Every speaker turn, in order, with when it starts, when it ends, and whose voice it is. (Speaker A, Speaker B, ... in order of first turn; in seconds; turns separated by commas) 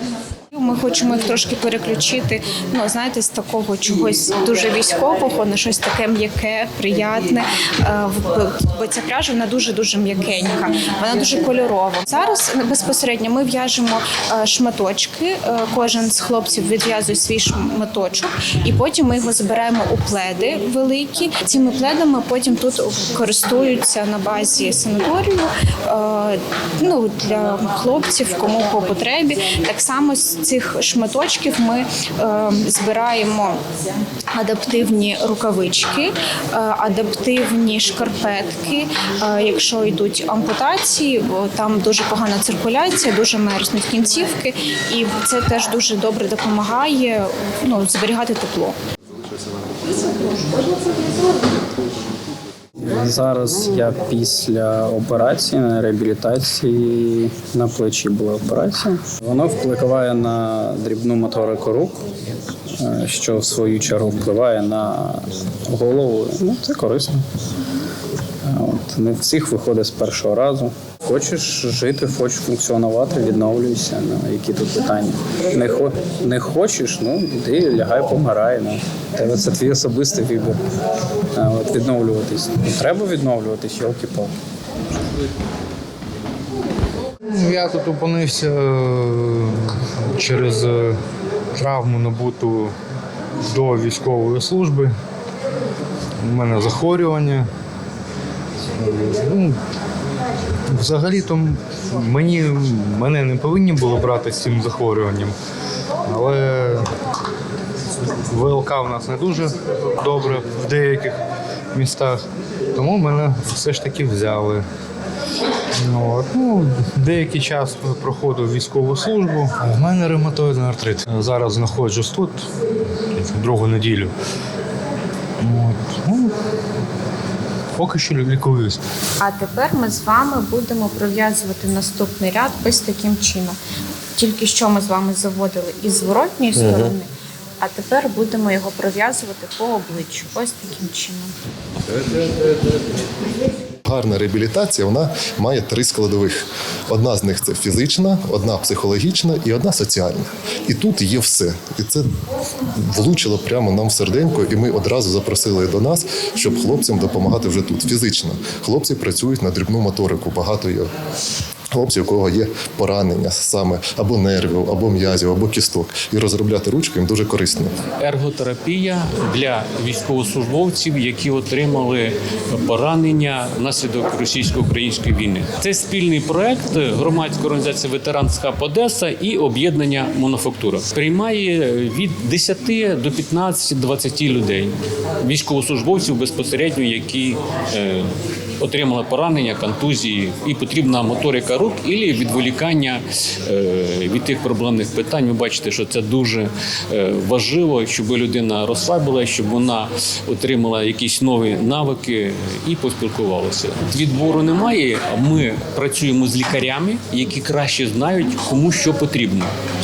Speaker A: 0.5-33.6, Speaker A: 34.3-48.8, Speaker B: 52.9-53.9, Speaker C: 53.0-61.8, Speaker B: 54.8-60.3, Speaker B: 60.9-62.0, Speaker C: 62.8-65.2, Speaker B: 62.9-64.5, Speaker B: 65.4-65.7, Speaker C: 65.7-67.2, Speaker C: 68.5-72.9, Speaker B: 70.5-71.2, Speaker B: 72.0-73.9, Speaker C: 73.5-75.1, Speaker B: 74.7-76.2, Speaker C: 75.8-78.7, Speaker B: 78.7-79.9, Speaker C: 79.3-80.5, Speaker C: 81.4-84.3, Speaker D: 87.3-91.0, Speaker D: 91.6-92.7, Speaker D: 93.5-94.9, Speaker D: 96.2-97.5, Speaker D: 98.8-99.6, Speaker D: 100.7-105.3, Speaker D: 106.1-106.9, Speaker D: 108.3-111.2, Speaker D: 111.7-112.2, Speaker D: 112.8-114.6, Speaker D: 115.8-122.5, Speaker D: 123.1-124.1, Speaker D: 125.4-126.3, Speaker D: 127.8-128.8, Speaker A: 129.2-133.6, Speaker A: 134.2-137.1, Speaker A: 137.6-141.3, Speaker B: 143.8-152.1, Speaker B: 152.7-160.9, Speaker B: 161.7-167.8, Speaker E: 168.0-209.5